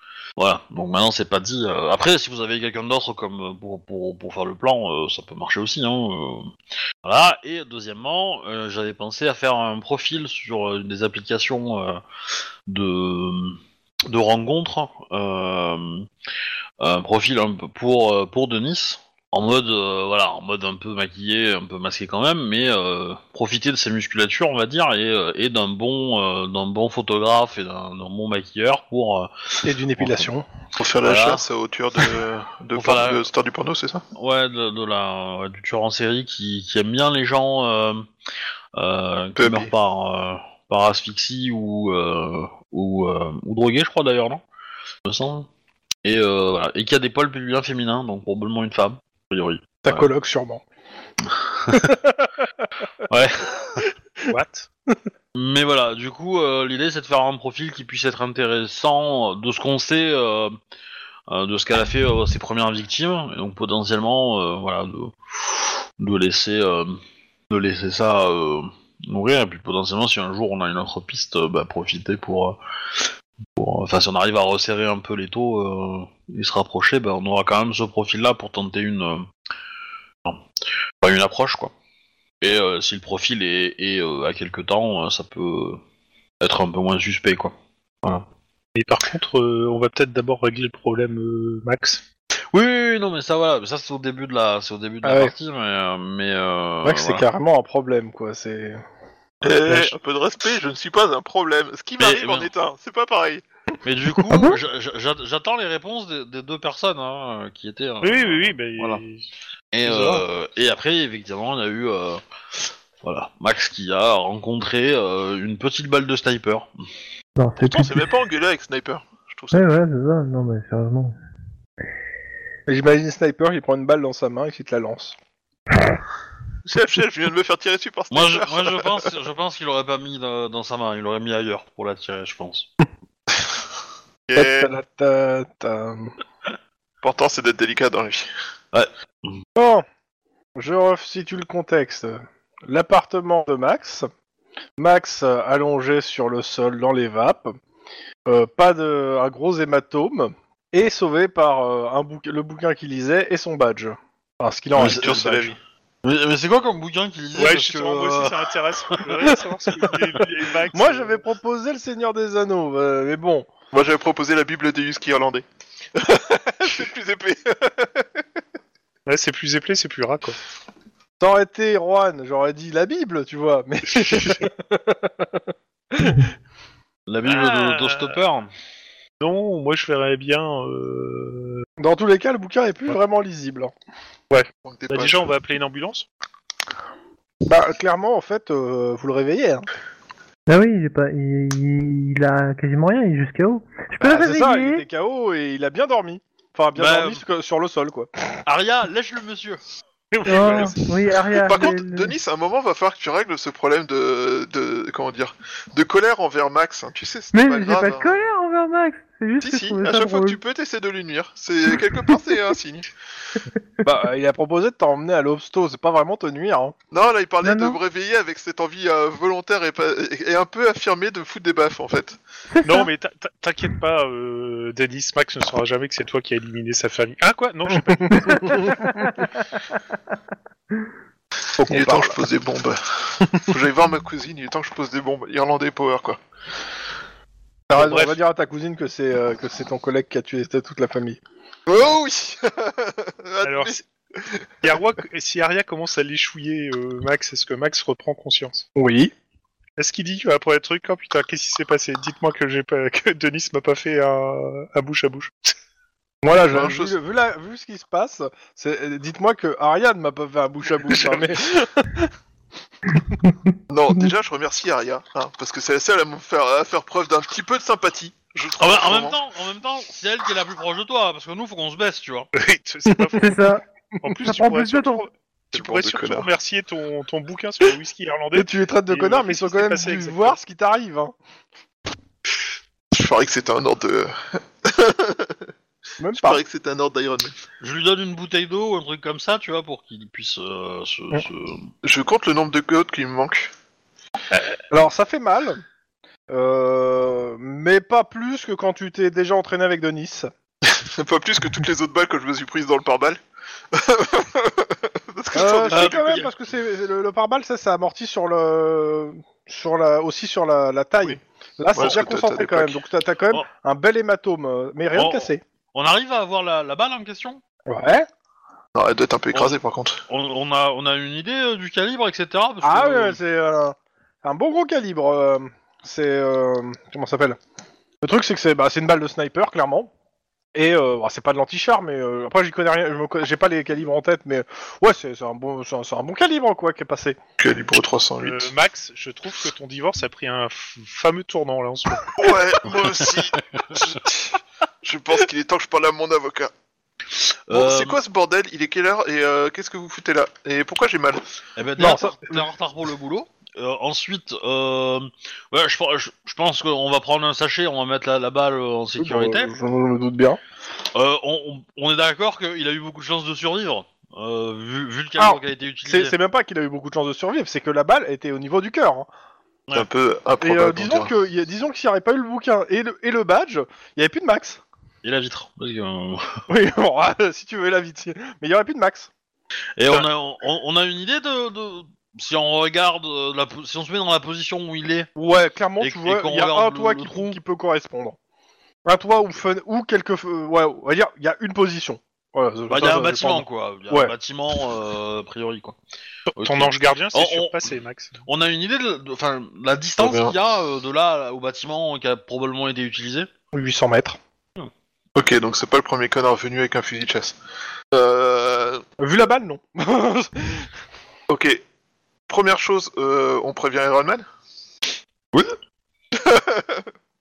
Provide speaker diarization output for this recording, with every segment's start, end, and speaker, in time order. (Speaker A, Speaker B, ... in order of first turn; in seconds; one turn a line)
Speaker A: 0.4-6.5
Speaker A: 7.0-12.0
Speaker A: 12.7-16.1
Speaker A: 16.8-29.3
Speaker B: 29.6-30.4
Speaker A: 30.0-30.2
Speaker C: 30.8-34.0
Speaker A: 31.0-31.4
Speaker A: 32.8-33.3
Speaker A: 34.1-38.0
Speaker A: 38.8-44.4
Speaker C: 39.4-39.7
Speaker A: 45.0-45.5
Speaker A: 46.0-50.1
Speaker B: 49.8-50.6
Speaker A: 51.2-51.9
Speaker A: 53.1-53.8
Speaker D: 54.3-54.7
Speaker A: 55.3-60.5
Speaker A: 61.3-67.0
Speaker A: 67.5-79.3
Speaker A: 81.0-81.7
Speaker A: 82.4-85.8
Speaker A: 86.4-88.2
Speaker D: 88.7-92.0
Speaker A: 92.5-97.2
Speaker B: 95.0-95.3
Speaker B: 96.8-98.8
Speaker B: 99.4-99.9
Speaker C: 99.4-103.4
Speaker A: 102.0-102.5
Speaker A: 103.8-109.0
Speaker D: 108.0-109.3
Speaker A: 109.7-116.7
Speaker D: 109.8-110.2
Speaker E: 117.4-118.1
Speaker C: 117.6-119.6
Speaker E: 119.5-121.2
Speaker B: 122.7-125.1
Speaker C: 126.6-129.1
Speaker A: 128.1-132.7
Speaker C: 134.3-134.7
Speaker B: 134.3-136.1
Speaker C: 137.0-138.3
Speaker A: 138.7-139.3
Speaker B: 139.6-139.8
Speaker B: 140.6-144.1
Speaker B: 144.8-147.5
Speaker B: 148.2-155.6
Speaker A: 154.8-155.2
Speaker C: 154.8-155.5
Speaker A: 156.0-159.1
Speaker D: 157.4-161.2
Speaker B: 160.7-163.5
Speaker C: 163.7-165.4
Speaker C: 165.9-167.9
Speaker D: 169.1-170.4
Speaker B: 171.2-176.3
Speaker A: 177.1-178.5
Speaker D: 177.2-178.2
Speaker D: 179.2-181.6
Speaker B: 181.8-183.7
Speaker D: 184.3-186.1
Speaker C: 184.6-185.3
Speaker B: 187.4-189.7
Speaker E: 190.5-194.8
Speaker B: 194.0-198.1
Speaker A: 196.8-197.2
Speaker A: 198.4-199.6
Speaker D: 200.1-200.7
Speaker C: 200.2-200.8
Speaker E: 200.2-202.1
Speaker C: 201.3-208.3
Speaker E: 207.3-210.4
Speaker C: 209.4-212.9
Speaker B: 213.8-216.7
Speaker C: 216.9-222.2
Speaker E: 217.4-217.8
Speaker E: 222.6-222.9
Speaker D: 222.6-228.7
Speaker B: 228.2-228.5
Speaker E: 228.2-229.2
Speaker B: 231.6-232.2
Speaker C: 231.7-236.2
Speaker B: 237.7-241.2
Speaker D: 237.8-238.2
Speaker C: 241.7-244.5
Speaker D: 243.4-243.8
Speaker D: 244.6-248.7
Speaker B: 248.7-249.1
Speaker D: 249.8-255.3
Speaker B: 256.2-262.1
Speaker C: 256.5-257.0
Speaker C: 263.7-269.2
Speaker A: 268.6-272.3
Speaker D: 272.3-273.4
Speaker B: 272.9-273.3
Speaker E: 273.2-273.6
Speaker D: 274.0-280.4
Speaker E: 274.2-275.0
Speaker C: 275.5-276.3
Speaker B: 278.3-281.1
Speaker C: 282.9-285.4
Speaker B: 286.0-286.4
Speaker C: 286.1-287.4
Speaker A: 287.6-291.7
Speaker C: 291.8-293.5
Speaker B: 294.7-295.6
Speaker B: 296.3-300.3
Speaker C: 300.7-303.2
Speaker C: 303.7-306.2
Speaker B: 305.3-315.4
Speaker A: 305.7-306.3
Speaker C: 311.7-312.8
Speaker A: 314.9-317.4
Speaker B: 317.7-318.1
Speaker C: 318.7-320.0
Speaker A: 320.1-323.2
Speaker B: 322.6-327.4
Speaker B: 328.0-329.9
Speaker B: 330.5-337.2
Speaker C: 337.4-338.5
Speaker D: 338.2-342.2
Speaker C: 342.2-344.3
Speaker A: 343.1-344.0
Speaker C: 344.8-346.5
Speaker A: 347.1-348.0
Speaker C: 347.5-351.2
Speaker A: 351.6-359.5
Speaker B: 351.8-352.4
Speaker B: 359.0-360.4
Speaker A: 360.9-366.1
Speaker B: 365.2-369.1
Speaker C: 369.7-371.1
Speaker B: 370.4-374.6
Speaker A: 375.0-376.4
Speaker B: 376.5-379.1
Speaker A: 379.8-385.1
Speaker B: 385.1-388.2
Speaker A: 385.8-387.4
Speaker B: 388.8-394.1
Speaker A: 392.7-395.8
Speaker D: 396.3-398.1
Speaker A: 396.4-403.3
Speaker C: 400.0-400.3
Speaker B: 403.5-404.2
Speaker C: 405.1-407.4
Speaker C: 407.9-408.8
Speaker B: 409.0-410.7
Speaker C: 411.3-411.6
Speaker C: 412.3-414.2
Speaker C: 416.1-416.8